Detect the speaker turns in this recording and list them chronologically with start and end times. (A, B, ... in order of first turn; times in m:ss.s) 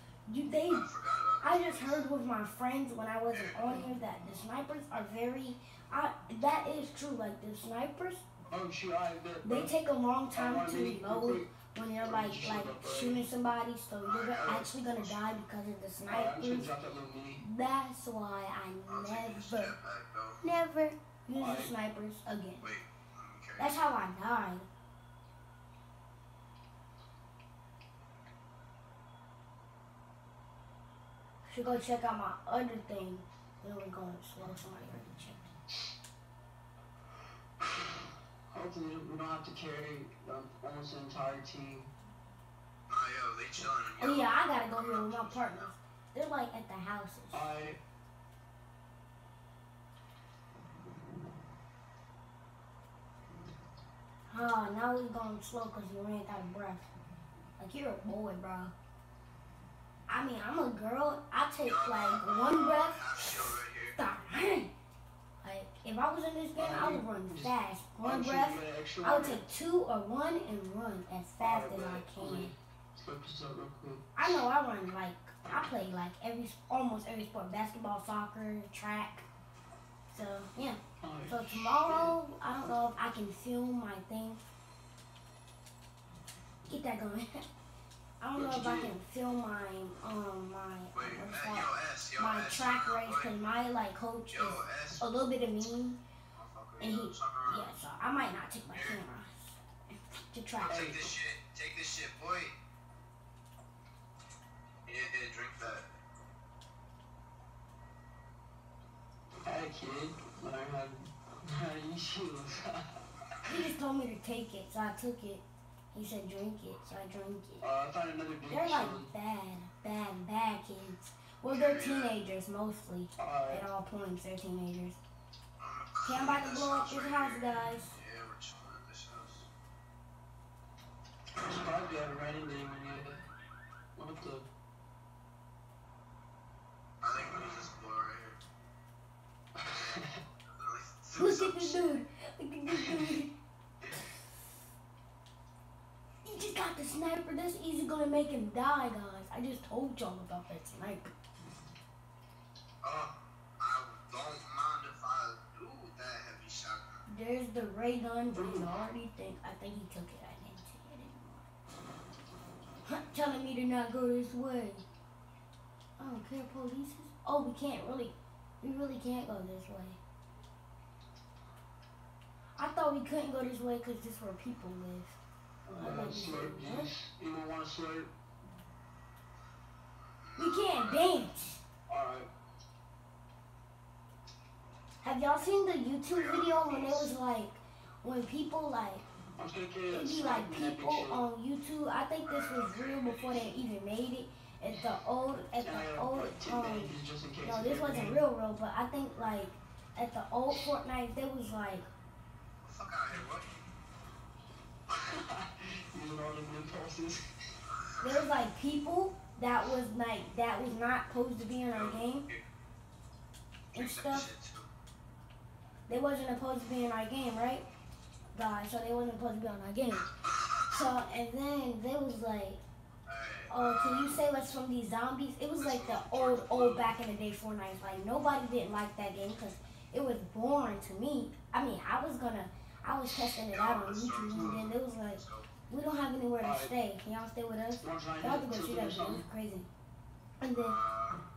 0:00.3-0:00.8 A
0:00.5-0:02.0 B
0:01.4-0:08.2 A
0:03.3-0:03.8 B
0:08.5-0:09.7 C
0:09.4-0:16.7 A
0:10.3-0:11.5 C
0:12.0-0:13.2 C
0:14.0-0:15.2 B
0:16.1-0:17.4 C
0:17.4-0:19.7 A
0:18.9-0:20.4 B
0:20.4-0:22.7 A
0:21.4-0:21.7 C
0:22.6-0:23.8 B
0:23.6-0:24.6 A
0:31.4-0:35.5 A
0:37.6-0:41.9 C
0:42.9-0:45.7 B
0:44.0-0:47.5 A
0:47.3-0:47.8 C
0:54.3-0:56.9 A
0:57.6-0:58.7 A
1:00.1-1:03.0 A
1:01.6-1:04.0 B
1:04.0-1:04.7 A
1:05.4-1:12.5 A
1:06.6-1:09.4 C
1:11.4-1:14.3 C
1:14.2-1:19.2 A
1:20.1-1:24.4 A
1:21.0-1:22.2 C
1:26.7-1:27.4 A
1:28.2-1:36.0 A
1:28.3-1:28.9 C
1:30.9-1:33.3 B
1:34.3-1:35.1 B
1:36.3-1:37.7 B
1:36.8-1:39.6 A
1:38.7-1:39.0 B
1:40.3-1:41.1 A
1:40.6-1:42.5 B
1:44.9-1:45.9 B
1:49.4-1:52.9 C
1:53.4-1:57.6 A
1:57.6-1:59.1 C
1:58.5-2:05.0 A
2:01.5-2:02.2 B
2:03.2-2:03.6 C
2:05.6-2:09.5 B
2:06.0-2:08.0 A
2:11.4-2:13.2 C
2:14.0-2:14.4 C
2:17.0-2:18.4 B
2:19.6-2:20.2 C
2:20.5-2:21.9 B
2:21.2-2:23.3 A
2:26.2-2:31.1 A
2:32.8-2:37.0 B
2:37.1-2:41.5 A
2:38.3-2:38.8 C
2:42.8-2:44.8 A
2:46.0-2:50.0 A
2:52.6-2:55.2 A
2:55.6-2:58.1 C
2:55.8-2:56.9 A
3:00.1-3:01.3 B
3:00.4-3:01.6 A
3:01.9-3:02.3 C
3:05.0-3:09.0 A
3:06.1-3:07.1 B
3:09.4-3:11.2 C
3:09.9-3:21.8 A
3:12.2-3:13.5 B
3:15.6-3:18.2 C
3:22.6-3:23.6 B
3:24.9-3:27.2 C
3:27.9-3:28.3 B
3:28.0-3:32.2 A
3:31.7-3:32.4 B
3:33.7-3:34.7 B
3:33.7-3:34.3 A
3:35.9-3:37.6 A
3:38.3-3:40.1 A
3:40.1-3:40.9 B
3:40.7-3:42.6 A
3:43.1-3:44.2 B
3:43.5-3:59.7 A
3:45.6-3:46.9 B
3:53.3-3:55.5 B
3:54.3-3:54.6 C
3:56.4-3:56.7 C
3:57.8-3:59.2 C
4:00.4-4:00.8 A
4:00.6-4:01.2 B